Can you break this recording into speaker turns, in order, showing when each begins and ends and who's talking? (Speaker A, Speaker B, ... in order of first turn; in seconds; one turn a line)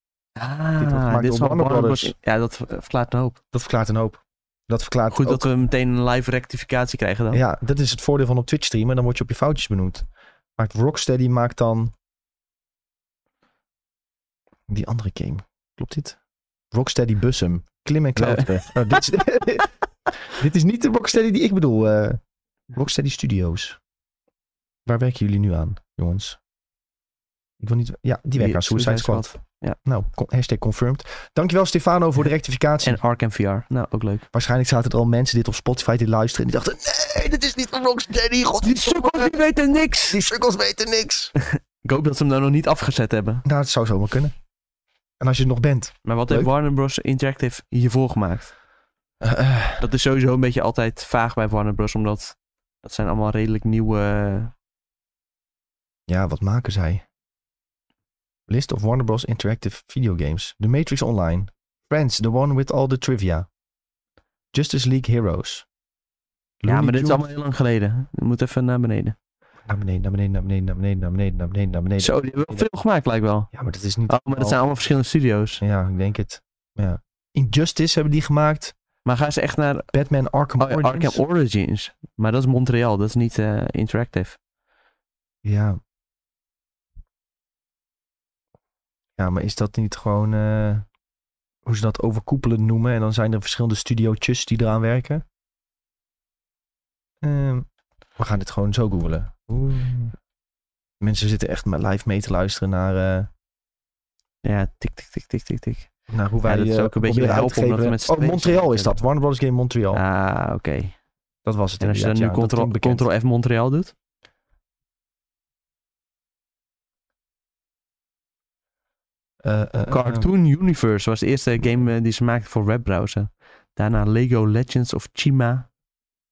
Speaker A: 0.4-3.4
Speaker B: 0.8-2.1
Speaker B: 3.5-5.5
Speaker A: 5.1-7.4
Speaker B: 7.3-11.9
Speaker B: 14.7-16.2
Speaker B: 16.7-19.7
Speaker A: 18.2-19.0
Speaker B: 20.3-22.2
Speaker B: 22.7-23.8
Speaker B: 24.9-26.4
Speaker B: 27.6-29.3
Speaker A: 28.4-29.8
Speaker B: 29.9-33.0
Speaker A: 32.8-34.3
Speaker B: 34.3-39.4
Speaker A: 38.6-40.2
Speaker B: 40.1-41.3
Speaker A: 41.4-43.5
Speaker B: 43.5-44.3
Speaker B: 45.2-46.5
Speaker A: 46.0-48.5
Speaker B: 49.2-49.8
Speaker A: 49.8-54.5
Speaker B: 56.1-57.0
Speaker B: 58.5-63.5
Speaker B: 64.5-65.7
Speaker B: 66.6-67.2
Speaker A: 66.7-69.2
Speaker B: 69.7-72.7
Speaker A: 72.0-73.5
Speaker B: 73.5-74.6
Speaker A: 74.1-75.6
Speaker B: 75.6-78.7
Speaker A: 79.0-79.9
Speaker B: 79.9-81.2
Speaker A: 80.6-84.4
Speaker B: 85.4-85.8
Speaker B: 89.2-90.9
Speaker B: 91.7-95.2
Speaker B: 97.2-97.7
Speaker B: 98.2-100.2
Speaker B: 101.0-103.3
Speaker A: 104.4-105.9
Speaker B: 106.1-110.0
Speaker A: 106.5-109.0
Speaker A: 109.9-111.0
Speaker B: 111.5-113.1
Speaker A: 111.8-113.9
Speaker B: 119.4-120.3
Speaker A: 119.9-125.7